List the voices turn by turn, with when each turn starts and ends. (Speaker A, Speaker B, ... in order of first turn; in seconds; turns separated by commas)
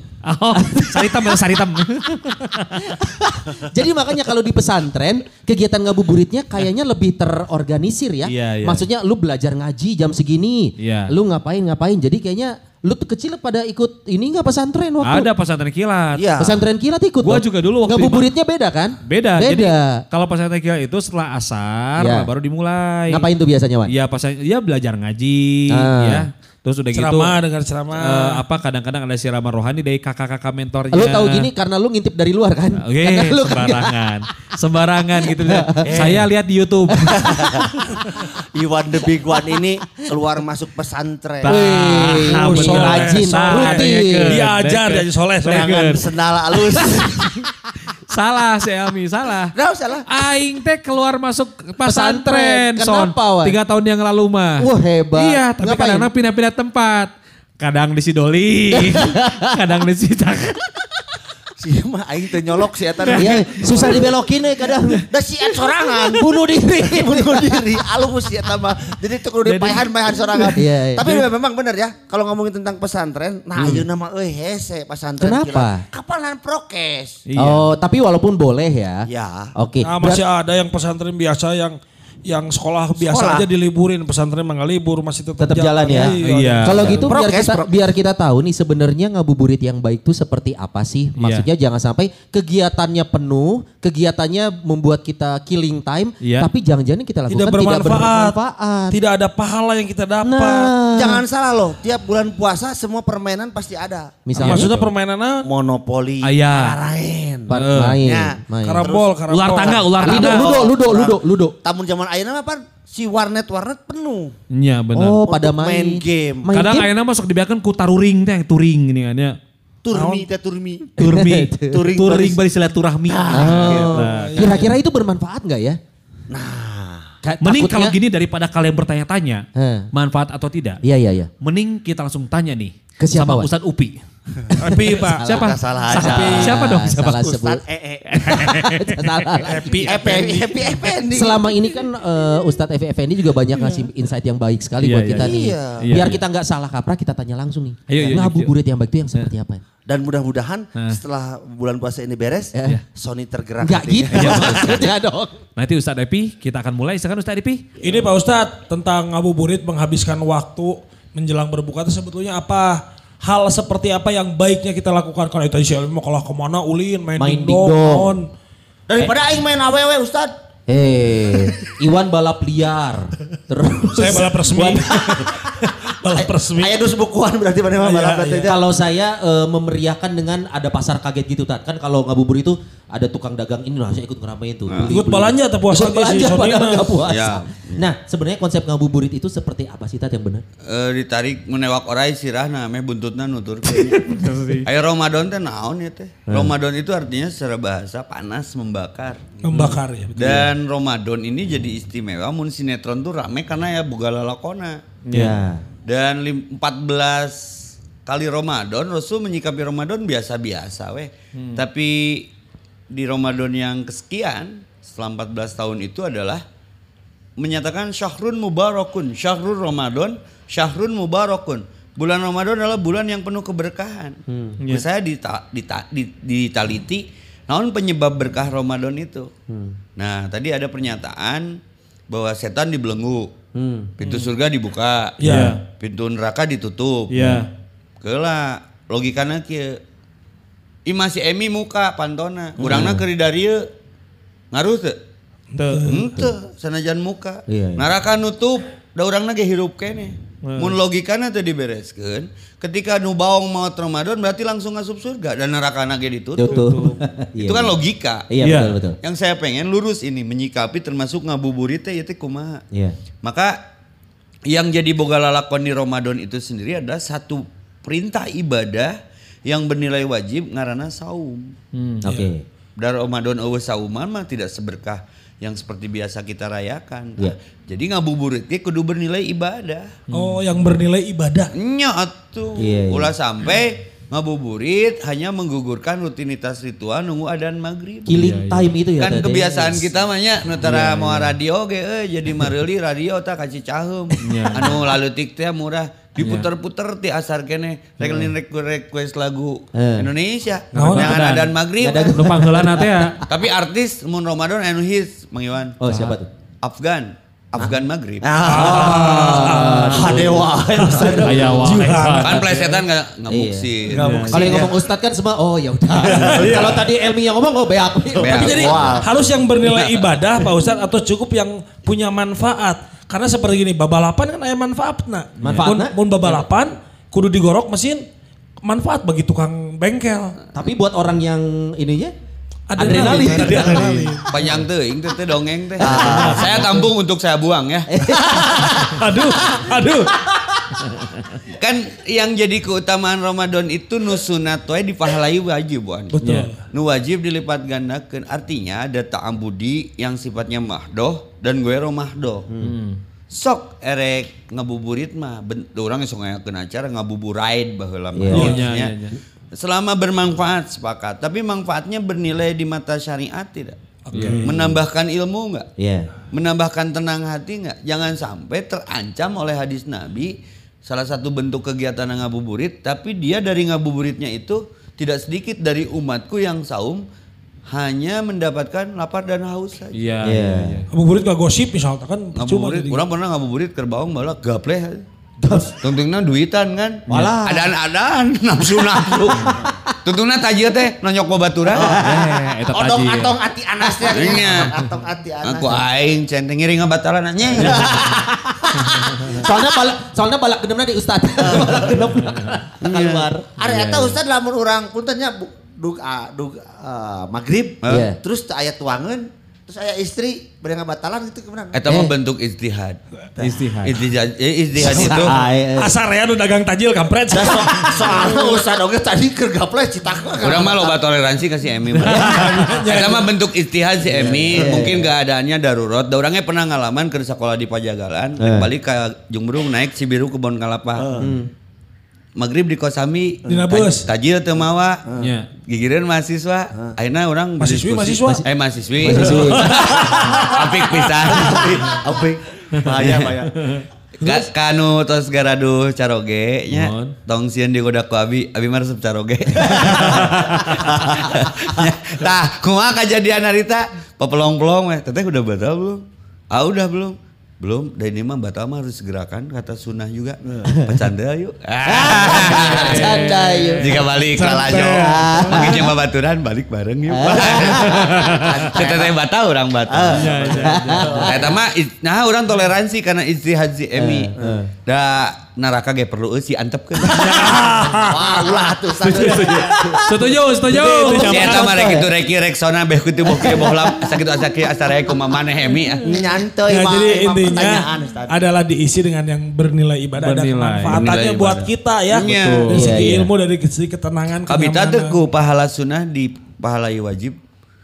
Speaker A: 0.2-2.9, Speaker B: 0.6-1.4, Speaker B: 2.7-15.3, Speaker A: 8.3-8.8, Speaker A: 10.8-11.1, Speaker A: 15.0-16.4, Speaker C: 16.2-16.6, Speaker B: 16.4-20.0, Speaker A: 17.2-18.3, Speaker A: 19.1-23.2, Speaker B: 22.0-22.3, Speaker B: 23.1-23.9, Speaker A: 23.9-27.4, Speaker B: 25.7-26.2, Speaker D: 26.9-28.4, Speaker A: 28.0-31.5, Speaker B: 30.9-34.0, Speaker A: 32.8-37.3, Speaker B: 35.2-35.9, Speaker B: 37.0-37.9, Speaker C: 37.3-41.5, Speaker A: 41.4-47.3, Speaker B: 41.5-44.4, Speaker D: 42.2-45.8, Speaker C: 45.5-47.5, Speaker A: 48.1-49.5, Speaker C: 49.5-50.1, Speaker A: 50.1-54.6, Speaker B: 51.9-53.5, Speaker B: 54.6-56.1, Speaker A: 55.2-60.7, Speaker B: 58.7-59.5, Speaker C: 61.6-64.1, Speaker A: 63.0-64.1, Speaker B: 63.2-65.0, Speaker A: 64.8-65.0, Speaker C: 65.1-77.2, Speaker B: 65.9-67.8, Speaker A: 69.5-70.4, Speaker B: 70.5-71.1, Speaker B: 73.6-73.8, Speaker B: 75.2-75.8, Speaker A: 77.3-77.7, Speaker B: 77.4-80.2, Speaker C: 79.1-79.5, Speaker D: 79.8-87.1, Speaker C: 83.0-83.5, Speaker B: 85.4-99.0, Speaker A: 85.9-87.0, Speaker C: 87.0-87.8, Speaker A: 91.2-91.5, Speaker A: 96.2-96.5, Speaker D: 97.3-98.4, Speaker D: 98.9-100.7, Speaker B: 100.2-101.2, Speaker C: 100.9-104.2, Speaker B: 104.3-104.8, Speaker D: 104.4-105.5, Speaker A: 104.4-104.9, Speaker C: 105.4-109.1, Speaker A: 106.2-106.8, Speaker B: 107.5-108.9, Speaker A: 107.5-108.0, Speaker D: 108.6-109.9, Speaker A: 109.3-110.5, Speaker C: 109.9-114.3, Speaker B: 110.0-111.5, Speaker A: 114.5-115.2, Speaker B: 115.0-116.9, Speaker C: 115.2-116.5, Speaker A: 116.5-119.4, Speaker C: 119.8-121.0, Speaker D: 120.0-120.2, Speaker B: 121.0-121.9, Speaker A: 121.0-124.6, Speaker C: 121.7-122.4, Speaker C: 123.1-124.0, Speaker B: 123.3-125.8, Speaker D: 123.7-124.7, Speaker C: 126.3-127.1, Speaker B: 127.2-128.0, Speaker A: 127.4-130.8, Speaker B: 129.6-129.9, Speaker B: 130.8-131.3, Speaker A: 131.4-134.0, Speaker B: 133.0-133.5, Speaker D: 134.6-135.2, Speaker B: 134.6-137.6, Speaker A: 135.2-137.3, Speaker C: 135.2-138.5, Speaker D: 136.0-136.5, Speaker A: 138.1-139.2, Speaker B: 138.2-140.4, Speaker D: 139.5-140.5, Speaker C: 139.8-141.6, Speaker B: 141.1-149.6, Speaker A: 144.8-146.2, Speaker C: 145.2-145.9, Speaker A: 147.9-148.5, Speaker C: 149.9-154.8, Speaker B: 153.6-155.4, Speaker A: 154.1-154.9, Speaker A: 155.6-157.6, Speaker D: 157.8-168.3, Speaker B: 167.2-168.1, Speaker C: 168.9-170.3, Speaker B: 170.7-175.4, Speaker D: 173.9-176.8, Speaker C: 176.1-178.6, Speaker D: 177.8-178.5, Speaker B: 178.4-190.4, Speaker E: 184.7-185.1, Speaker D: 184.9-186.9, Speaker E: 187.0-187.8, Speaker E: 190.7-199.3, Speaker A: 194.0-194.7, Speaker B: 196.3-196.5, Speaker D: 199.4-200.5, Speaker A: 199.5-199.8, Speaker E: 200.2-204.8, Speaker A: 205.1-205.4, Speaker B: 205.1-205.6, Speaker E: 205.9-207.4, Speaker E: 208.1-212.3, Speaker A: 211.4-211.6, Speaker E: 212.9-216.4, Speaker E: 217.4-229.3, Speaker B: 224.3-224.6, Speaker B: 229.5-229.8, Speaker E: 230.0-231.6, Speaker E: 232.1-233.3, Speaker B: 233.6-233.9, Speaker E: 234.0-237.1, Speaker A: 234.0-234.3, Speaker D: 235.2-235.6, Speaker A: 235.2-235.6, Speaker A: 237.1-237.5, Speaker B: 237.2-237.4, Speaker E: 238.0-239.8, Speaker E: 240.9-243.7, Speaker A: 242.6-243.0, Speaker B: 242.7-243.0, Speaker E: 244.5-245.0, Speaker D: 245.6-246.1, Speaker A: 245.6-246.0, Speaker E: 245.9-256.7, Speaker B: 247.5-247.9, Speaker A: 250.4-250.8, Speaker B: 256.4-257.8, Speaker A: 256.4-257.0, Speaker E: 257.4-262.6, Speaker B: 258.3-259.0, Speaker A: 258.4-258.7, Speaker E: 263.2-263.6, Speaker E: 264.5-271.5, Speaker A: 271.7-272.1, Speaker B: 272.0-272.4, Speaker D: 272.1-272.3, Speaker E: 272.8-279.9, Speaker A: 280.1-280.4, Speaker D: 280.1-281.5, Speaker E: 281.5-288.2, Speaker B: 282.6-283.1, Speaker B: 288.1-289.9, Speaker A: 288.1-288.7, Speaker E: 289.0-302.1, Speaker B: 290.6-291.3, Speaker B: 294.2-294.8, Speaker A: 294.2-294.8, Speaker A: 296.2-296.5, Speaker A: 298.0-298.3, Speaker B: 299.8-300.1, Speaker D: 300.7-301.2, Speaker A: 300.8-301.6, Speaker B: 301.8-303.3, Speaker A: 302.1-303.1, Speaker E: 303.3-305.8, Speaker B: 305.8-306.3, Speaker A: 305.9-306.2, Speaker E: 306.6-308.4, Speaker C: 307.6-311.6, Speaker D: 308.4-310.3, Speaker B: 308.6-311.4, Speaker D: 310.8-312.8, Speaker A: 311.2-312.4, Speaker E: 312.2-314.6, Speaker B: 313.3-313.7, Speaker D: 313.9-314.7, Speaker A: 313.9-314.6, Speaker B: 314.3-318.9, Speaker D: 316.0-316.9, Speaker E: 318.2-319.0, Speaker D: 318.3-328.0, Speaker C: 318.4-319.1, Speaker E: 319.6-320.1, Speaker B: 325.4-325.9, Speaker D: 328.6-330.4, Speaker B: 330.5-332.1, Speaker D: 332.7-334.3, Speaker B: 332.8-334.1, Speaker A: 332.9-334.2, Speaker E: 334.3-337.9, Speaker B: 335.8-336.9, Speaker C: 335.8-336.6, Speaker B: 337.9-339.7, Speaker D: 338.1-340.1, Speaker B: 340.3-340.6, Speaker E: 341.5-352.5, Speaker D: 346.1-346.7, Speaker A: 346.2-346.5, Speaker B: 352.5-352.8, Speaker A: 352.6-353.0, Speaker E: 353.3-365.7, Speaker B: 358.1-358.5, Speaker A: 358.3-359.2, Speaker D: 358.4-358.6, Speaker D: 364.1-364.4, Speaker A: 364.1-364.4, Speaker B: 364.1-364.8, Speaker B: 365.8-366.1, Speaker E: 366.3-377.0, Speaker E: 377.7-380.0, Speaker A: 379.9-380.9, Speaker B: 380.2-380.8, Speaker D: 380.9-383.0, Speaker E: 382.4-385.1, Speaker B: 385.4-385.8, Speaker E: 385.7-392.0, Speaker B: 387.1-387.7, Speaker B: 389.1-389.6, Speaker B: 391.8-392.3, Speaker C: 391.8-395.8, Speaker A: 392.0-393.4, Speaker E: 394.0-394.7, Speaker E: 395.4-398.2, Speaker C: 397.6-399.7, Speaker B: 399.4-403.4, Speaker C: 401.4-402.1, Speaker C: 402.8-411.8, Speaker E: 402.9-403.2, Speaker A: 403.7-404.1, Speaker B: 407.9-408.2, Speaker E: 411.7-413.0, Speaker B: 411.9-412.1, Speaker A: 413.4-414.1, Speaker E: 413.8-415.4, Speaker B: 414.8-416.0, Speaker D: 415.8-418.5, Speaker C: 417.3-421.0, Speaker E: 420.4-431.1, Speaker D: 422.0-423.3, Speaker B: 424.1-425.1, Speaker B: 428.4-428.7, Speaker C: 431.0-431.3, Speaker B: 431.2-431.5, Speaker E: 432.4-435.0, Speaker D: 433.5-434.1, Speaker C: 435.1-435.3, Speaker A: 435.2-435.5, Speaker E: 435.6-441.8, Speaker D: 437.6-438.5, Speaker B: 439.0-440.5, Speaker D: 439.1-440.7, Speaker C: 441.3-443.6, Speaker E: 443.0-443.3, Speaker A: 443.6-443.8, Speaker D: 444.2-444.5, Speaker E: 444.2-463.2, Speaker A: 446.7-447.1, Speaker A: 450.1-450.8, Speaker C: 450.7-451.6, Speaker B: 460.7-461.0, Speaker B: 461.9-464.0, Speaker A: 462.4-464.1, Speaker E: 463.8-470.4, Speaker D: 464.3-465.6, Speaker B: 465.1-465.9, Speaker B: 467.1-468.2, Speaker A: 467.6-468.6, Speaker C: 468.4-469.1, Speaker C: 469.9-471.4, Speaker A: 470.1-471.4, Speaker B: 470.5-471.5, Speaker E: 471.2-474.3, Speaker B: 474.0-474.7, Speaker E: 474.9-477.6, Speaker D: 477.1-478.2, Speaker C: 477.3-479.7, Speaker A: 479.1-481.7, Speaker D: 479.2-479.6, Speaker B: 479.8-480.2, Speaker D: 480.7-481.7, Speaker B: 481.0-482.1, Speaker E: 481.1-486.1, Speaker B: 483.4-483.9, Speaker C: 486.1-488.4, Speaker D: 486.7-495.2, Speaker A: 490.2-491.1, Speaker E: 490.9-492.9, Speaker A: 492.1-492.9, Speaker B: 492.7-493.3, Speaker E: 494.5-497.4